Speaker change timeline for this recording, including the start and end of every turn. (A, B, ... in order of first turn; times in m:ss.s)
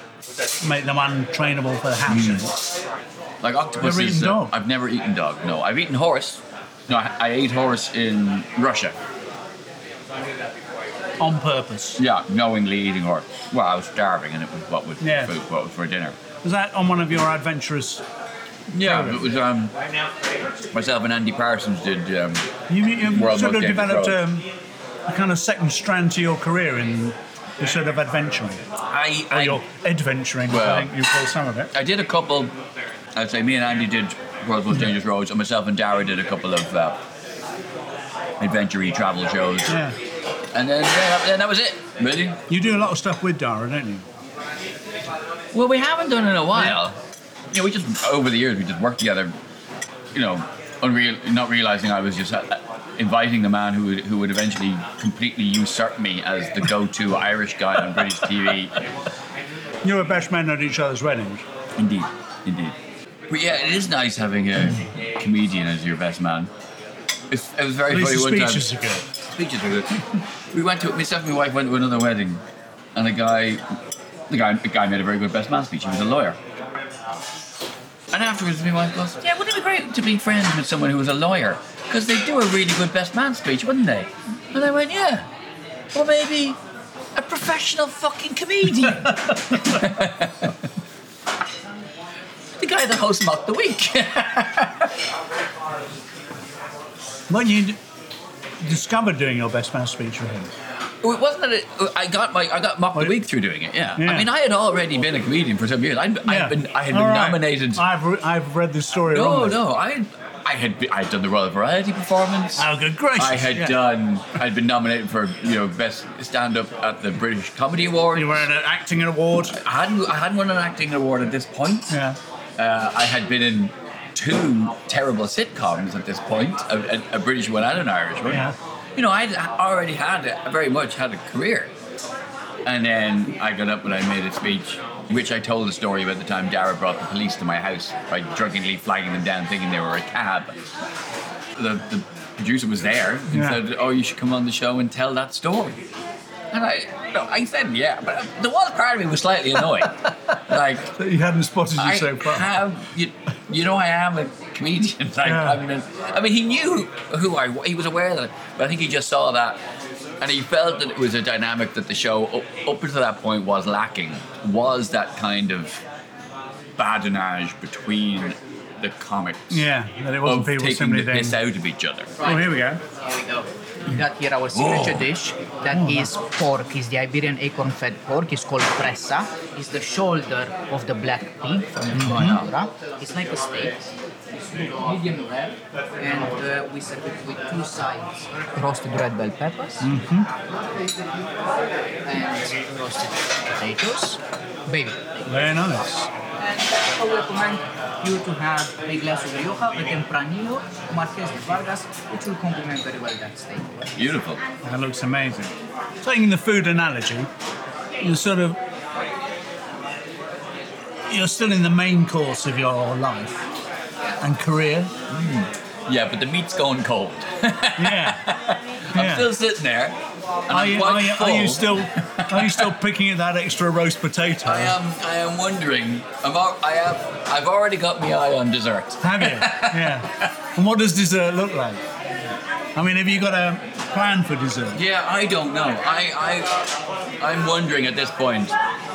0:00.6-0:02.6 A
0:02.1-0:02.5 B
0:03.4-0:09.0 B
0:03.8-0:04.5 A
0:11.2-0:12.0 A
0:12.0-0:16.2 B
0:15.0-0:15.3 A
0:16.4-0:18.0 A
0:18.7-0:19.8 B
0:18.8-0:19.3 A
0:20.7-0:22.5 B
0:22.7-0:24.5 A
0:23.0-0:24.2 B
0:25.1-0:28.6 A
0:28.9-0:29.6 B
0:29.3-0:31.7 A
0:30.5-0:31.0 B
0:31.7-0:32.6 B
0:33.2-0:37.0 B
0:38.4-0:39.8 B
0:39.7-0:40.0 A
0:40.5-0:42.4 B
0:42.5-0:44.1 A
0:45.5-0:47.0 B
0:47.5-0:49.4 B
0:50.1-0:58.8 B
0:59.8-1:01.4 A
1:01.8-1:02.8 B
1:03.3-1:06.5 B
1:07.3-1:10.0 B
1:07.9-1:09.0 A
1:10.5-1:12.4 B
1:13.0-1:13.6 B
1:14.3-1:16.4 B
1:18.1-1:25.3 B
1:25.9-1:26.6 B
1:27.2-1:30.6 B
1:28.8-1:29.8 A
1:32.6-1:34.9 B
1:37.3-1:37.8 A
1:38.6-1:40.5 A
1:41.0-1:47.9 B
1:44.0-1:44.3 A
1:46.3-1:49.6 A
1:49.1-1:58.5 B
1:52.6-1:53.8 A
1:58.1-1:59.6 A
1:59.5-2:02.0 B
2:01.9-2:02.2 A
2:02.6-2:11.7 B
2:08.3-2:08.6 A
2:12.6-2:20.6 B
2:21.6-2:25.8 B
2:23.3-2:23.6 A
2:26.5-2:30.9 B
2:31.0-2:32.5 A
2:31.8-2:39.6 B
2:35.2-2:35.6 A
2:40.2-2:45.8 B
2:46.8-2:49.7 B
2:49.5-2:51.4 A
2:50.2-2:52.1 B
2:52.2-3:09.9 C
2:52.2-2:52.8 A
2:54.5-2:55.1 B
2:55.7-2:56.1 A
3:01.9-3:02.4 A
3:02.1-3:02.5 B
3:09.8-3:10.3 A
3:12.0-3:15.4 C
3:15.3-3:16.1 A
3:16.4-3:24.0 C
3:24.0-3:24.4 B
3:24.6-3:27.3 A
3:28.0-3:28.6 A
3:31.1-3:33.4 A
3:34.2-3:34.9 A
3:35.1-3:42.7 B
3:37.8-3:38.3 A
3:38.9-3:39.3 A
3:40.5-3:44.8 A
3:44.4-3:50.3 B
3:49.0-3:51.8 A
3:52.8-3:54.8 A
3:54.7-3:56.6 B
3:57.2-3:58.6 B